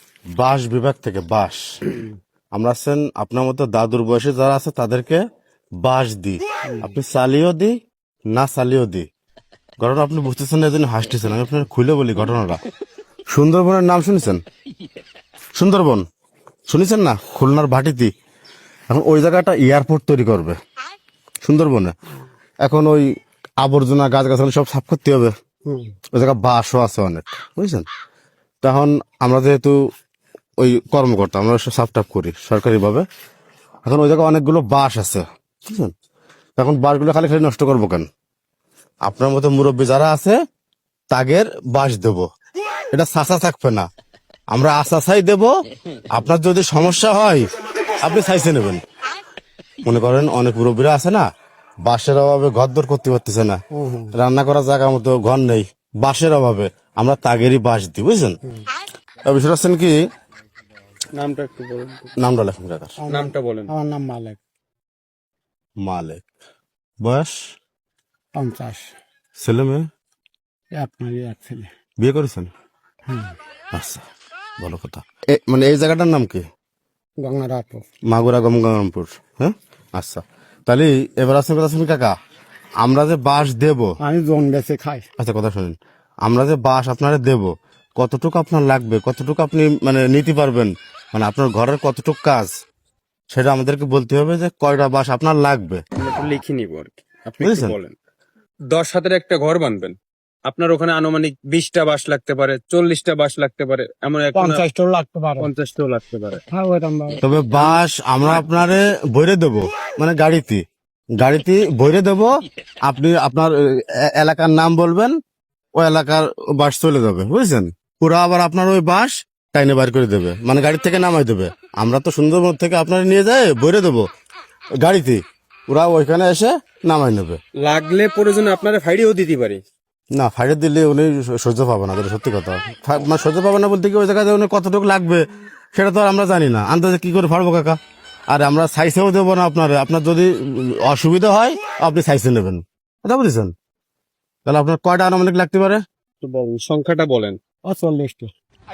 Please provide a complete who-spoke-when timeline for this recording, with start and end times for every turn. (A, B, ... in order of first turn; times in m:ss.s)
0:00.4-0:01.7 A
0:02.6-0:05.2 A
0:05.8-0:07.8 A
0:06.6-0:07.0 B
0:08.3-0:09.1 A
0:09.8-0:12.6 A
0:13.3-0:14.4 A
0:15.6-0:16.0 A
0:16.7-0:18.1 A
0:18.9-0:20.6 A
0:21.4-0:22.0 A
0:22.6-0:23.1 A
0:23.6-0:25.3 A
0:25.7-0:25.9 B
0:26.2-0:27.9 A
0:28.6-0:29.8 A
0:30.6-0:33.1 A
0:33.8-0:35.9 A
0:36.6-0:38.1 A
0:39.1-0:40.4 A
0:41.1-0:42.2 A
0:42.9-0:43.9 A
0:44.5-0:45.5 A
0:46.1-0:47.5 A
0:48.0-0:48.8 A
0:49.8-0:51.3 A
0:51.9-0:53.6 A
0:53.7-0:54.1 B
0:54.1-0:58.4 A
0:59.3-1:00.0 A
1:01.2-1:02.1 C
1:02.2-1:03.0 A
1:03.0-1:04.4 B
1:03.1-1:03.7 C
1:05.8-1:06.3 A
1:07.0-1:07.4 A
1:08.4-1:08.9 B
1:09.4-1:09.9 A
1:10.8-1:11.7 B
1:12.0-1:12.5 A
1:13.1-1:13.3 B
1:13.7-1:14.1 A
1:14.6-1:16.4 A
1:17.2-1:17.8 B
1:18.1-1:22.2 A
1:22.8-1:23.9 A
1:24.0-1:25.1 B
1:25.2-1:32.5 A
1:33.3-1:35.8 A
1:36.0-1:38.0 C
1:37.4-1:37.8 A
1:38.7-1:44.6 C
1:44.4-1:45.5 B
1:45.4-1:46.4 C
1:46.5-1:47.2 B
1:47.2-1:50.6 A
1:51.2-1:52.3 A
1:52.8-1:55.2 A
1:55.8-2:04.1 A
2:04.8-2:07.4 A
2:07.6-2:09.6 C
2:10.2-2:17.8 A
2:18.3-2:23.5 A
2:24.5-2:25.8 A
2:26.2-2:27.4 C
2:27.7-2:28.3 B